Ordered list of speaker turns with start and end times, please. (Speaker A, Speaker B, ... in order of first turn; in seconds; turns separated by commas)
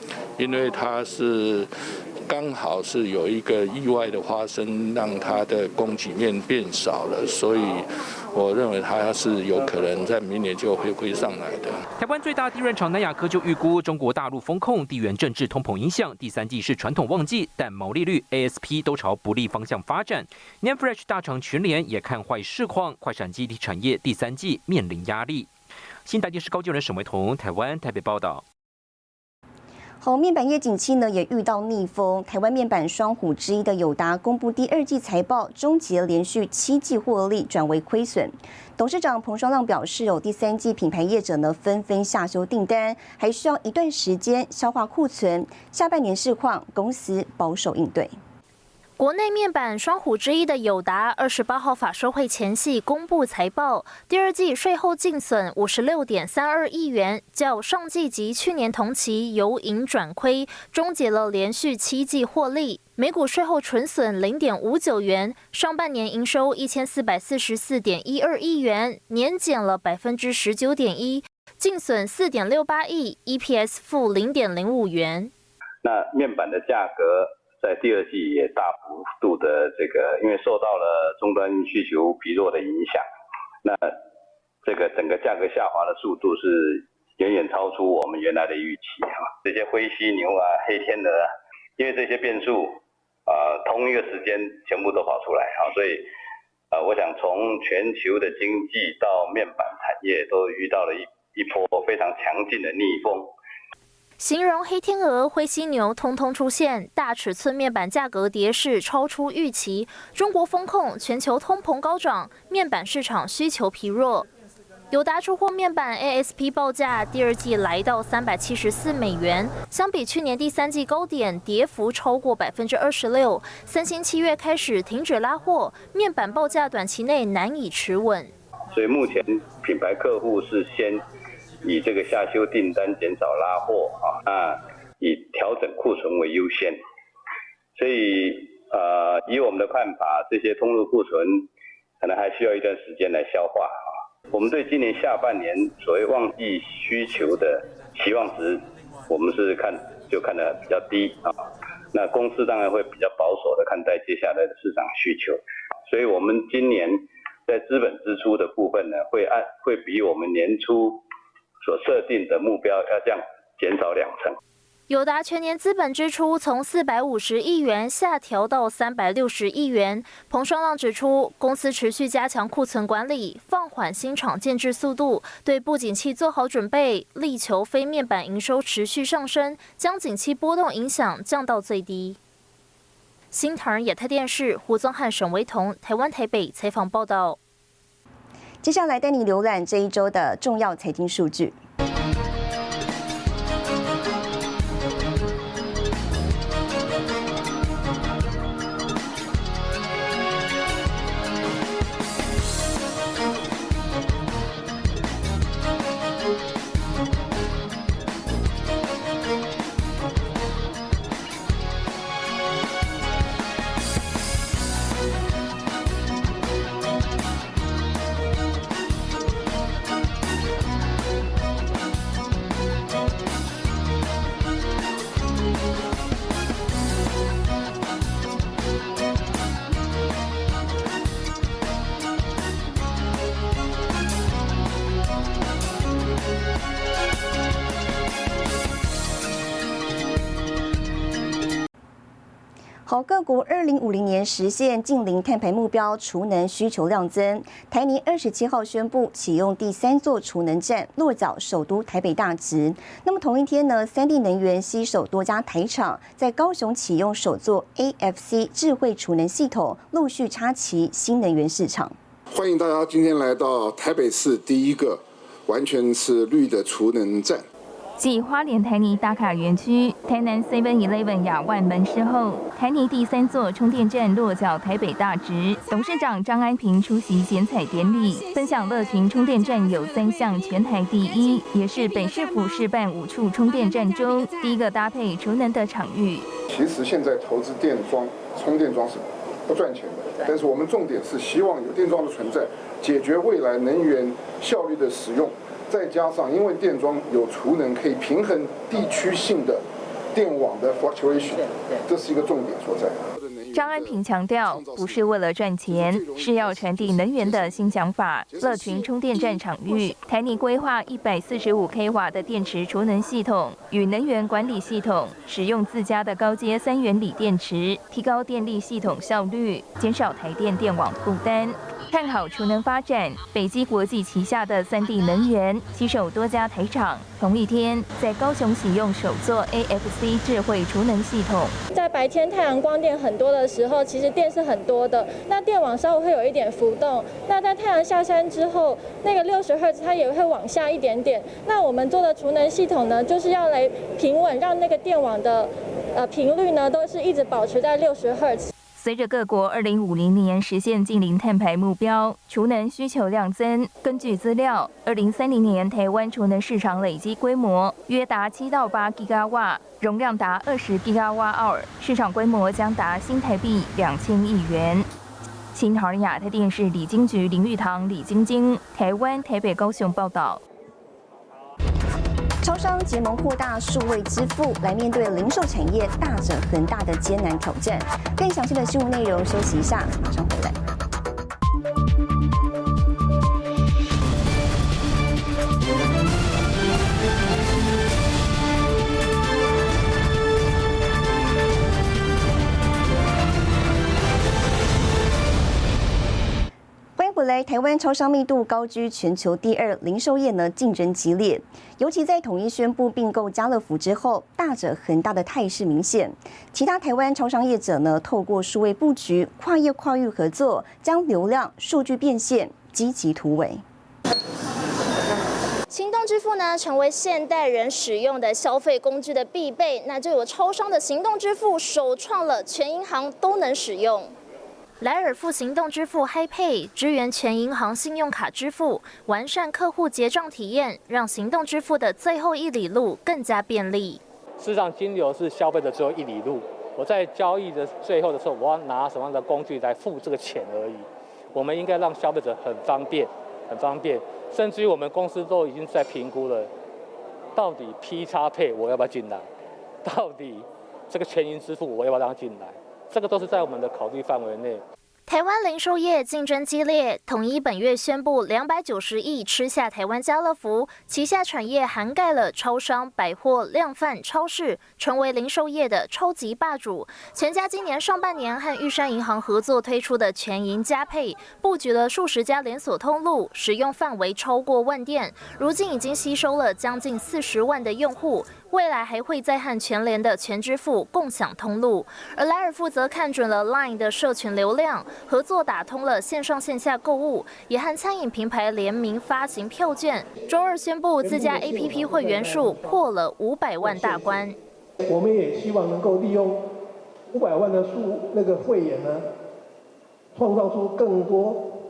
Speaker A: 0.4-1.4, Speaker A: 2.3-7.6, Speaker A: 8.3-11.7, Speaker B: 12.0-25.5, Speaker B: 26.0-28.4, Speaker C: 30.0-48.1, Speaker D: 49.0-75.3, Speaker E: 75.8-83.1, Speaker E: 83.6-84.0, Speaker E: 84.6-96.1, Speaker E: 96.7-103.3, Speaker D: 104.2-114.3, Speaker D: 114.9-128.3, Speaker E: 128.7-131.1, Speaker E: 131.6-136.8, Speaker E: 137.8-141.5, Speaker E: 142.0-143.8, Speaker E: 144.3-151.3, Speaker E: 151.9-161.0, Speaker E: 161.6-164.4, Speaker D: 164.9-182.2, Speaker D: 183.3-187.4, Speaker C: 188.6-191.6, Speaker C: 242.9-261.9, Speaker F: 262.3-267.4, Speaker G: 268.0-286.3, Speaker F: 286.5-299.6, Speaker F: 300.1-305.1, Speaker G: 303.5-331.6, Speaker F: 305.7-307.7, Speaker F: 308.3-309.9, Speaker H: 331.7-348.5, Speaker G: 348.8-364.9, Speaker G: 365.5-370.4, Speaker C: 372.4-380.6, Speaker C: 397.0-413.6, Speaker I: 415.7-424.1, Speaker D: 424.8-434.0, Speaker J: 434.4-446.5, Speaker J: 447.4-449.2, Speaker J: 449.8-454.6, Speaker D: 455.1-494.4, Speaker K: 491.0-492.7, Speaker K: 493.6-494.1, Speaker K: 494.8-496.4, Speaker K: 497.1-499.1, Speaker K: 500.1-501.5